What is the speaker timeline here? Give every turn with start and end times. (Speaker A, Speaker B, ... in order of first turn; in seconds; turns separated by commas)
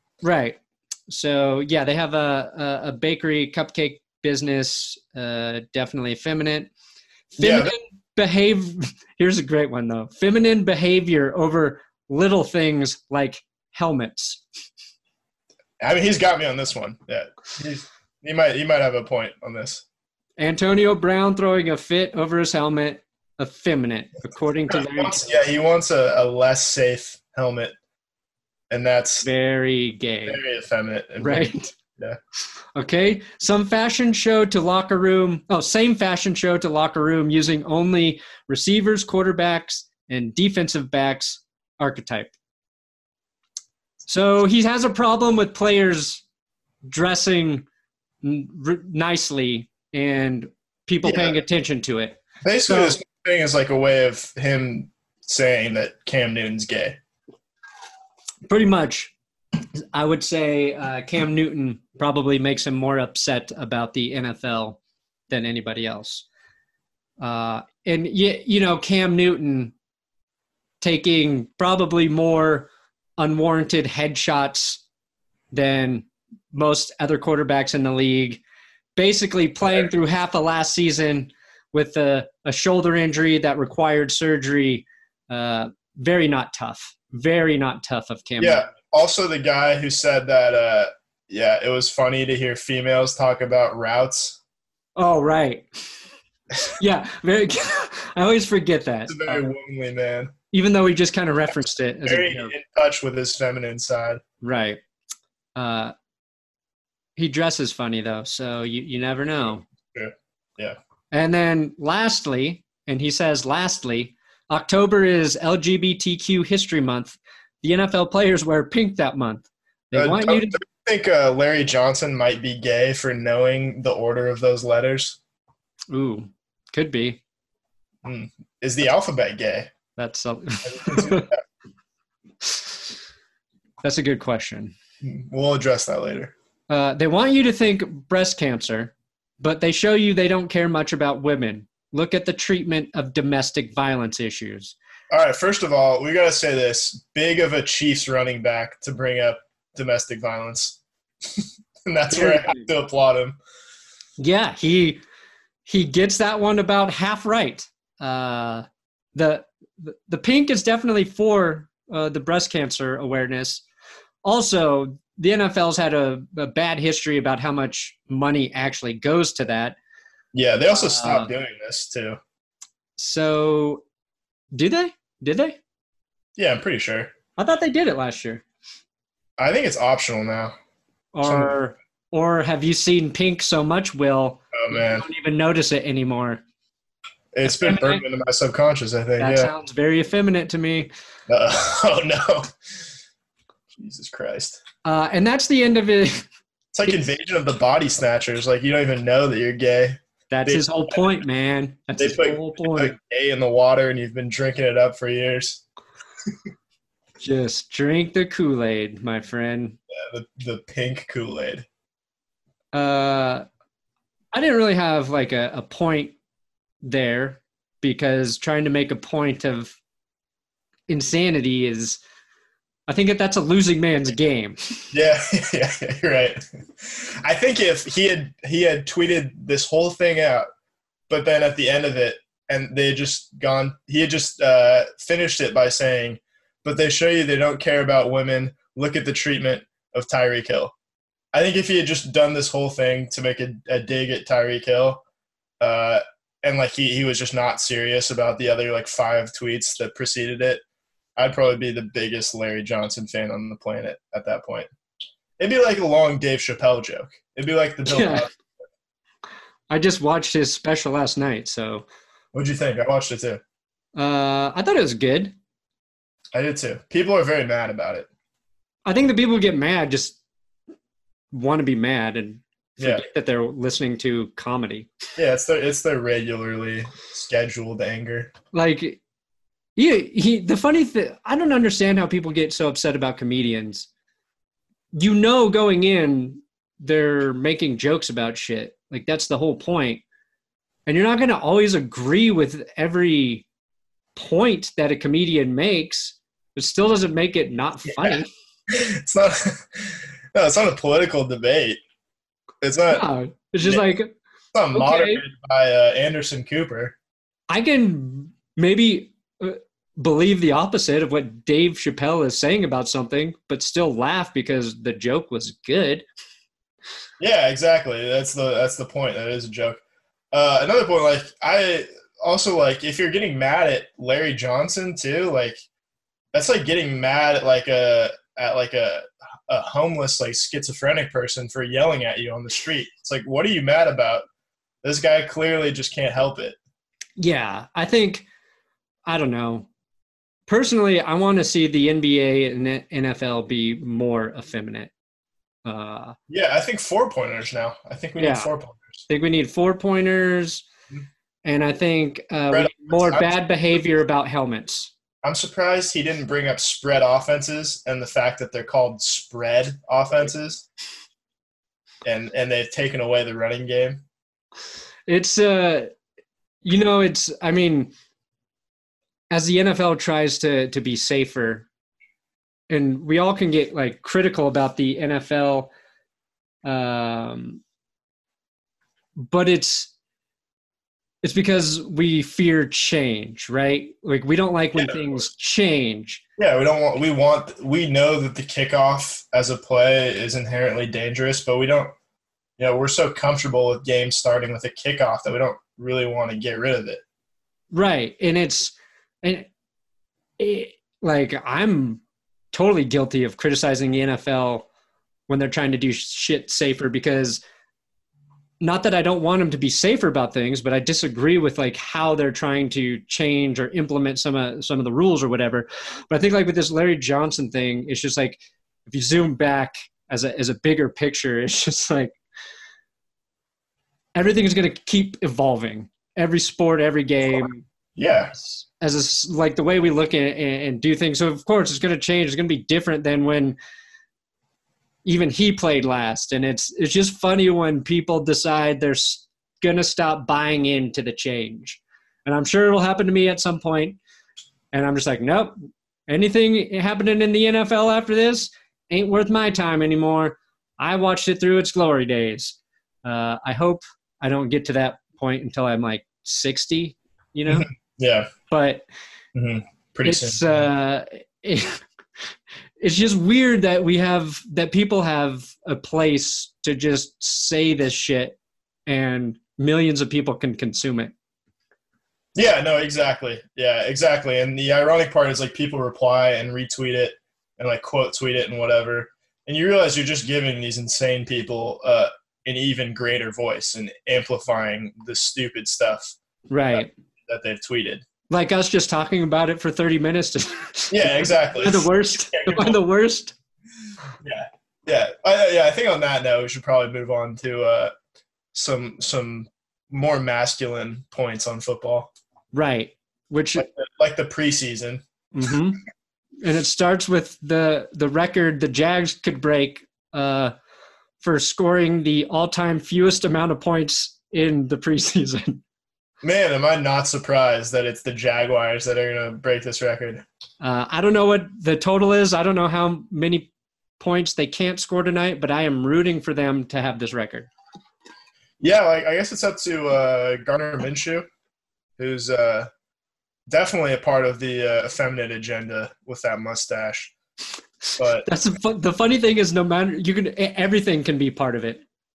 Speaker A: 0.2-6.7, Speaker B: 7.4-7.7, Speaker A: 7.4-14.4, Speaker B: 15.8-19.8, Speaker A: 20.4-25.3, Speaker B: 24.7-27.8, Speaker B: 28.7-29.3, Speaker A: 29.2-30.4, Speaker B: 30.3-32.2, Speaker A: 31.2-31.7, Speaker A: 32.8-42.3, Speaker A: 44.1-46.2, Speaker A: 46.9-47.6, Speaker A: 48.2-53.0, Speaker B: 51.0-51.4, Speaker B: 52.4-57.0, Speaker A: 58.5-59.1, Speaker A: 59.9-64.8, Speaker A: 65.3-66.2, Speaker A: 67.2-69.7, Speaker A: 70.8-74.8, Speaker A: 75.5-78.4, Speaker A: 79.0-88.7, Speaker B: 88.4-94.4, Speaker A: 95.0-95.7, Speaker A: 96.6-99.4, Speaker B: 99.1-100.3, Speaker A: 100.5-102.5, Speaker B: 102.1-104.2, Speaker A: 104.4-104.8, Speaker A: 105.6-105.9, Speaker A: 107.2-109.6, Speaker B: 109.9-110.8, Speaker A: 111.1-120.6, Speaker B: 119.9-125.2, Speaker A: 125.9-127.2, Speaker B: 128.0-129.7, Speaker A: 130.0-131.3, Speaker B: 130.6-131.4, Speaker A: 132.4-132.7, Speaker A: 133.8-134.8, Speaker B: 135.0-136.3, Speaker A: 136.7-144.8, Speaker B: 145.1-150.8, Speaker B: 151.4-153.4, Speaker A: 152.1-152.6, Speaker A: 154.2-155.0, Speaker A: 155.6-163.6, Speaker A: 164.2-169.8, Speaker B: 170.3-172.2, Speaker A: 170.7-171.3, Speaker A: 173.0-173.8, Speaker A: 174.6-175.6, Speaker B: 176.4-177.1, Speaker A: 177.4-178.4, Speaker B: 179.4-180.5, Speaker A: 181.1-186.4, Speaker B: 181.2-181.5, Speaker B: 184.5-185.1, Speaker B: 187.3-189.5, Speaker A: 187.4-188.0, Speaker A: 189.2-190.9, Speaker B: 191.3-192.5, Speaker B: 193.8-194.6, Speaker A: 194.8-196.3, Speaker B: 196.7-201.0, Speaker A: 200.3-202.9, Speaker B: 202.0-205.6, Speaker A: 207.2-209.8, Speaker B: 209.9-211.7, Speaker A: 212.7-213.5, Speaker A: 214.3-216.1, Speaker A: 216.8-219.8, Speaker A: 220.9-222.0, Speaker A: 222.9-224.9, Speaker B: 224.9-230.5, Speaker B: 231.1-240.7, Speaker B: 241.3-245.0, Speaker B: 245.6-250.6, Speaker B: 251.2-254.7, Speaker B: 255.4-258.3, Speaker A: 257.9-258.3, Speaker A: 259.7-261.9, Speaker B: 262.3-263.4, Speaker A: 264.0-265.4, Speaker B: 266.3-268.1, Speaker A: 268.9-270.2, Speaker A: 271.3-274.9, Speaker B: 272.8-273.0, Speaker B: 275.2-278.3, Speaker A: 278.5-279.0, Speaker A: 279.8-283.9, Speaker A: 284.9-290.0, Speaker A: 290.9-293.5, Speaker A: 294.1-298.3, Speaker B: 297.9-301.8, Speaker B: 302.6-303.1, Speaker A: 302.9-304.1, Speaker B: 303.6-303.9, Speaker B: 304.5-307.0, Speaker A: 304.7-305.2, Speaker A: 307.5-316.1, Speaker B: 317.2-319.8, Speaker B: 320.3-325.6, Speaker B: 326.3-334.2, Speaker B: 334.8-336.6, Speaker A: 337.2-338.3, Speaker A: 339.1-339.7, Speaker A: 340.5-344.9, Speaker A: 345.6-346.1, Speaker B: 346.3-349.0, Speaker A: 348.2-348.5, Speaker A: 349.1-350.7, Speaker A: 351.4-354.9, Speaker B: 352.5-353.3, Speaker B: 355.2-360.6, Speaker B: 362.0-364.0, Speaker A: 365.1-365.9, Speaker A: 366.6-367.9, Speaker A: 369.3-371.7, Speaker A: 372.7-375.7, Speaker A: 376.6-377.6, Speaker A: 379.2-379.9, Speaker A: 381.2-386.2, Speaker B: 384.8-385.2, Speaker B: 386.4-391.9, Speaker B: 392.6-397.0, Speaker A: 397.7-399.5, Speaker A: 400.4-404.7, Speaker A: 405.3-407.4, Speaker A: 408.6-422.2, Speaker A: 424.1-427.6, Speaker B: 428.0-428.4, Speaker A: 428.5-433.6, Speaker A: 435.1-444.0, Speaker A: 444.7-445.5, Speaker A: 446.1-457.7, Speaker B: 457.5-458.3, Speaker A: 458.5-458.9, Speaker B: 459.4-460.7, Speaker A: 460.1-461.8, Speaker A: 462.8-471.1, Speaker B: 472.4-486.1, Speaker A: 486.5-486.9, Speaker B: 486.7-488.0, Speaker A: 488.3-493.4, Speaker B: 490.9-492.8, Speaker B: 494.2-497.9, Speaker B: 498.5-502.1, Speaker A: 502.5-503.6, Speaker B: 503.6-505.0, Speaker A: 505.3-505.8, Speaker A: 506.4-510.5, Speaker A: 511.2-515.6, Speaker B: 516.2-520.2, Speaker A: 520.6-527.5, Speaker B: 528.6-531.3, Speaker B: 532.0-532.7, Speaker B: 533.5-537.1, Speaker B: 538.0-538.3, Speaker A: 538.2-541.8